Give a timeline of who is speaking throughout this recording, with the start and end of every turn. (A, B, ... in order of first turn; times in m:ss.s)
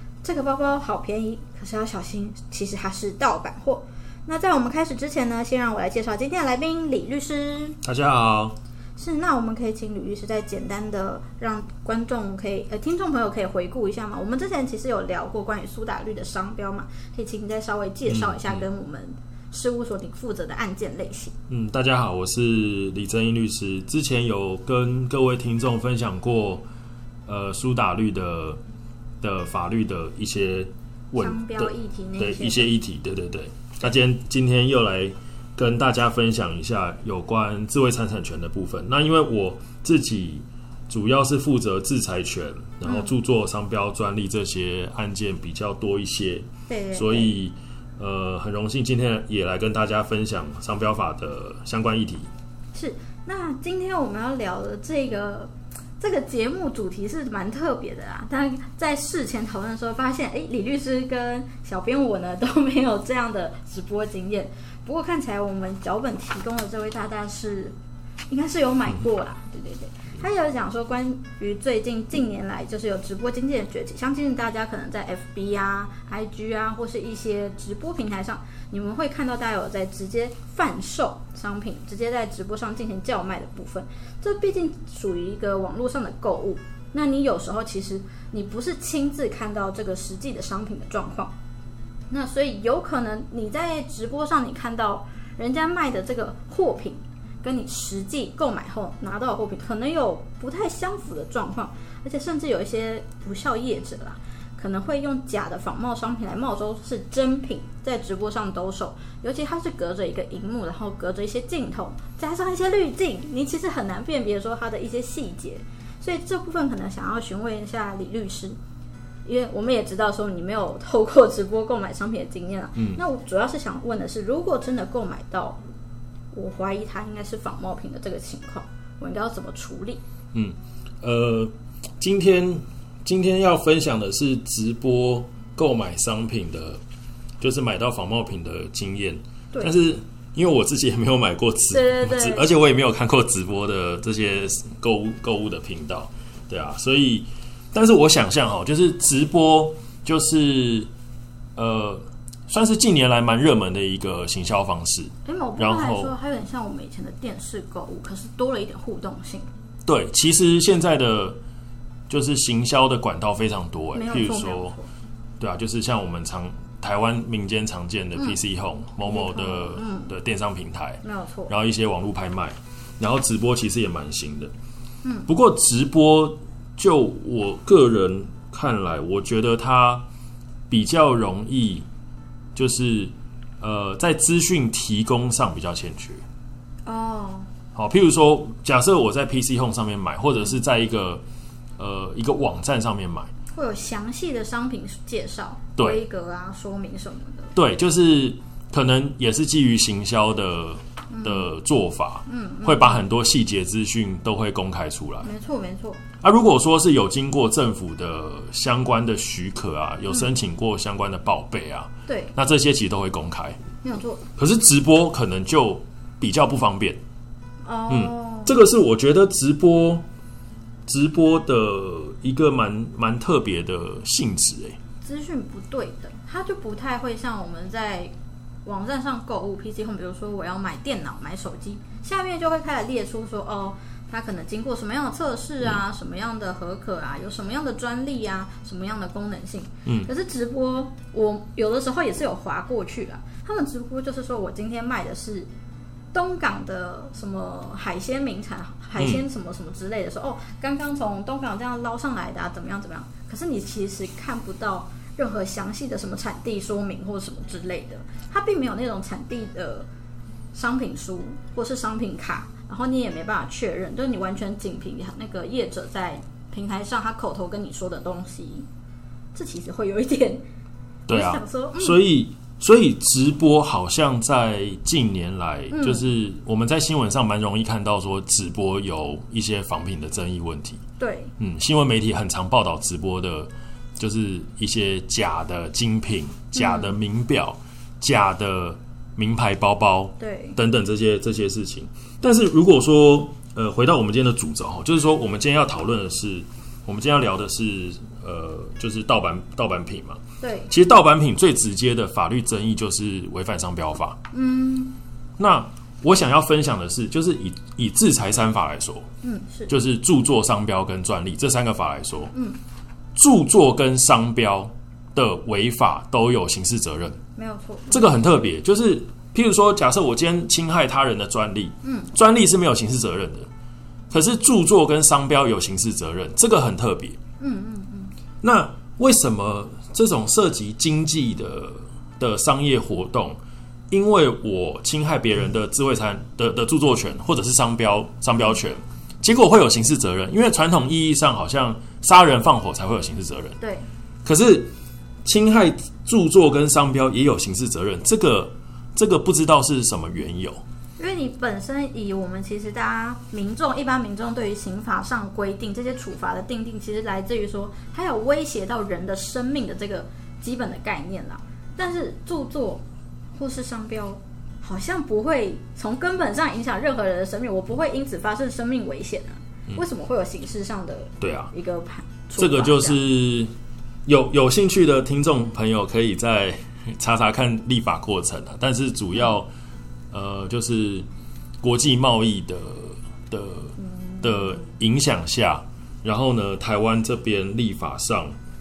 0:00.2-0:07.8 A
0:07.8-0:08.5 B
0:09.0-0:21.3 A
0:18.1-0:18.7 B
0:21.5-0:26.6 B
0:27.2-0:28.6 B
0:29.2-0:52.3 B
0:31.1-0:32.7 A
0:42.8-0:43.1 A
0:46.7-0:47.4 A
0:52.7-1:07.7 A
1:08.3-1:31.3 A
1:32.1-1:58.6 A
1:59.2-2:05.6 A
2:06.3-2:10.0 A
2:10.3-2:16.8 B
2:17.4-2:30.9 B
2:21.7-2:22.5 A
2:31.6-2:36.1 B
2:35.2-2:39.5 A
2:39.8-2:41.4 B
2:42.1-2:44.7 B
2:43.9-2:44.9 A
2:45.4-2:54.5 B
2:49.0-2:50.1 A
2:51.0-2:51.5 A
2:55.0-2:55.3 A
2:55.3-3:00.0 B
3:00.7-3:01.8 B
3:02.5-3:06.2 B
3:06.8-3:07.5 A
3:07.7-3:11.2 B
3:11.8-3:13.3 B
3:13.5-3:17.5 A
3:15.8-3:16.0 B
3:17.6-3:25.3 B
3:21.1-3:21.5 A
3:22.3-3:23.0 A
3:25.2-3:26.0 A
3:26.2-3:33.6 B
3:32.1-3:32.3 A
3:33.8-3:34.2 A
3:34.4-3:37.0 B
3:37.6-3:38.6 A
3:37.9-3:40.0 B
3:40.9-3:44.8 B
3:45.0-3:48.1 A
3:48.6-4:05.5 A
4:06.1-4:19.9 A
4:20.5-4:28.7 A
4:29.3-4:30.4 A
4:31.1-4:40.8 B
4:31.1-4:32.0 A
4:35.7-4:36.0 A
4:41.0-4:41.3 A
4:41.4-5:04.2 B
4:46.5-4:46.9 A
4:50.2-4:50.6 A
5:00.4-5:00.7 A
5:04.3-5:05.0 A
5:05.4-5:09.0 B
5:09.2-5:09.7 A
5:09.7-5:12.3 B
5:12.3-5:12.6 A
5:13.1-5:17.2 B
5:17.4-5:18.2 A
5:17.9-5:23.5 B
5:21.8-5:22.1 A
5:24.1-5:27.2 B
5:27.4-5:28.1 A
5:28.4-5:33.4 B
5:33.9-5:43.6 B
5:43.6-5:43.9 A
5:44.2-5:44.7 B
5:45.2-5:50.6 B
5:51.0-6:02.8 A
6:03.4-6:13.0 A
6:11.2-6:11.5 B
6:12.4-6:13.5 B
6:14.0-6:19.5 B
6:20.1-6:21.0 B
6:21.6-6:28.3 B
6:23.8-6:24.2 A